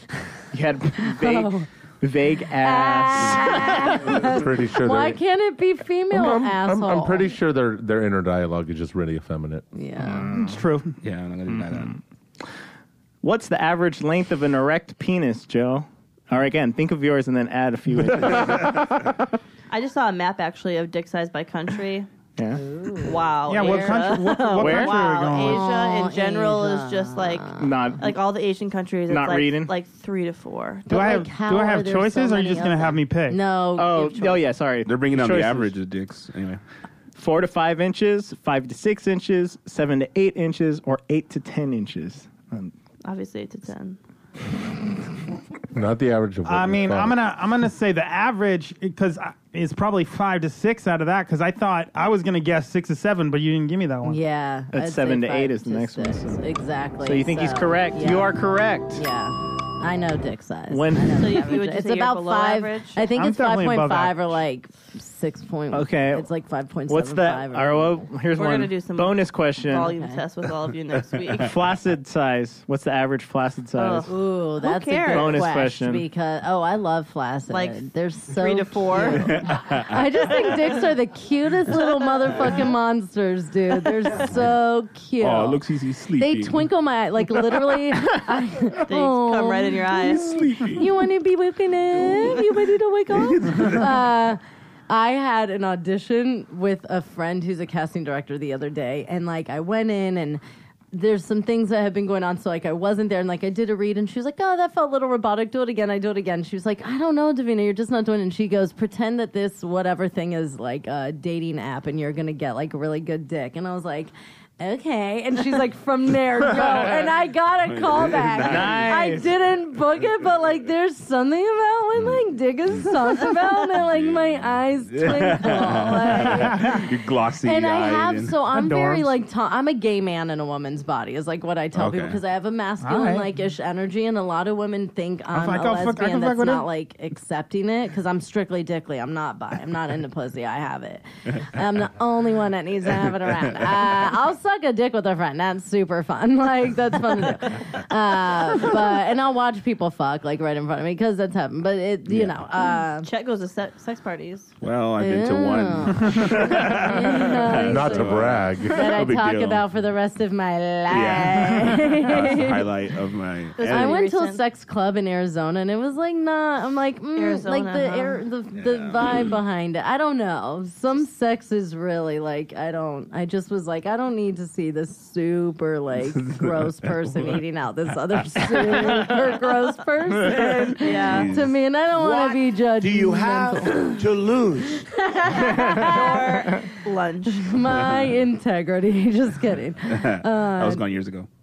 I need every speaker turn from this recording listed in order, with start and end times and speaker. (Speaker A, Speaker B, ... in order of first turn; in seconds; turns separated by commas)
Speaker A: 0.5-4.1, Speaker B: 1.0-1.7, Speaker B: 2.6-7.3, Speaker C: 4.1-5.2, Speaker C: 6.1-9.6, Speaker B: 9.7-10.3, Speaker D: 10.1-10.5, Speaker E: 10.3-11.0, Speaker D: 11.0-12.0, Speaker A: 11.5-11.9, Speaker A: 13.2-19.1, Speaker F: 19.7-22.1, Speaker A: 22.4-22.6, Speaker B: 22.6-23.2, Speaker F: 23.0-31.1, Speaker E: 23.4-25.6, Speaker A: 24.6-25.0, Speaker B: 25.4-28.0, Speaker A: 27.6-28.1, Speaker A: 29.1-29.7, Speaker B: 30.9-34.5, Speaker E: 30.9-33.4, Speaker A: 33.8-35.8, Speaker D: 34.8-36.6, Speaker A: 37.1-42.7, Speaker F: 43.0-44.0, Speaker C: 45.7-47.2, Speaker E: 46.4-54.2, Speaker B: 54.0-58.4, Speaker A: 54.7-56.4, Speaker A: 57.0-59.0, Speaker B: 58.9-68.0, Speaker A: 60.7-61.2, Speaker F: 61.2-63.0, Speaker E: 63.1-64.4, Speaker A: 65.7-66.3, Speaker A: 66.9-69.9, Speaker F: 68.3-71.6, Speaker B: 69.8-70.2, Speaker A: 71.4-74.1, Speaker F: 73.7-75.5, Speaker B: 74.1-85.6, Speaker A: 75.1-76.0, Speaker F: 77.5-79.4, Speaker D: 79.1-80.0, Speaker D: 85.2-86.7, Speaker B: 86.2-100.4, Speaker F: 88.9-90.3, Speaker D: 90.0-90.9, Speaker D: 93.3-93.8, Speaker B: 100.9-126.9, Speaker D: 117.7-118.9, Speaker A: 118.4-119.3, Speaker D: 123.8-124.4, Speaker D: 124.9-128.4, Speaker E: 126.4-126.8, Speaker B: 127.4-153.1, Speaker E: 128.5-129.2, Speaker D: 131.7-132.2, Speaker E: 132.8-133.3, Speaker E: 135.3-136.7, Speaker D: 152.1-152.3, Speaker F: 153.0-154.5, Speaker D: 154.6-159.7, Speaker B: 155.0-162.7, Speaker C: 157.6-158.9, Speaker D: 160.9-164.0, Speaker F: 163.6-164.4, Speaker B: 163.7-184.0, Speaker F: 167.2-168.2, Speaker D: 168.6-169.2, Speaker A: 180.3-180.7, Speaker F: 180.8-181.3, Speaker D: 181.0-181.6, Speaker G: 181.9-184.8, Speaker B: 184.9-186.6, Speaker A: 185.3-185.9, Speaker F: 185.5-187.5, Speaker B: 187.3-190.9, Speaker D: 187.7-188.2, Speaker D: 189.9-191.3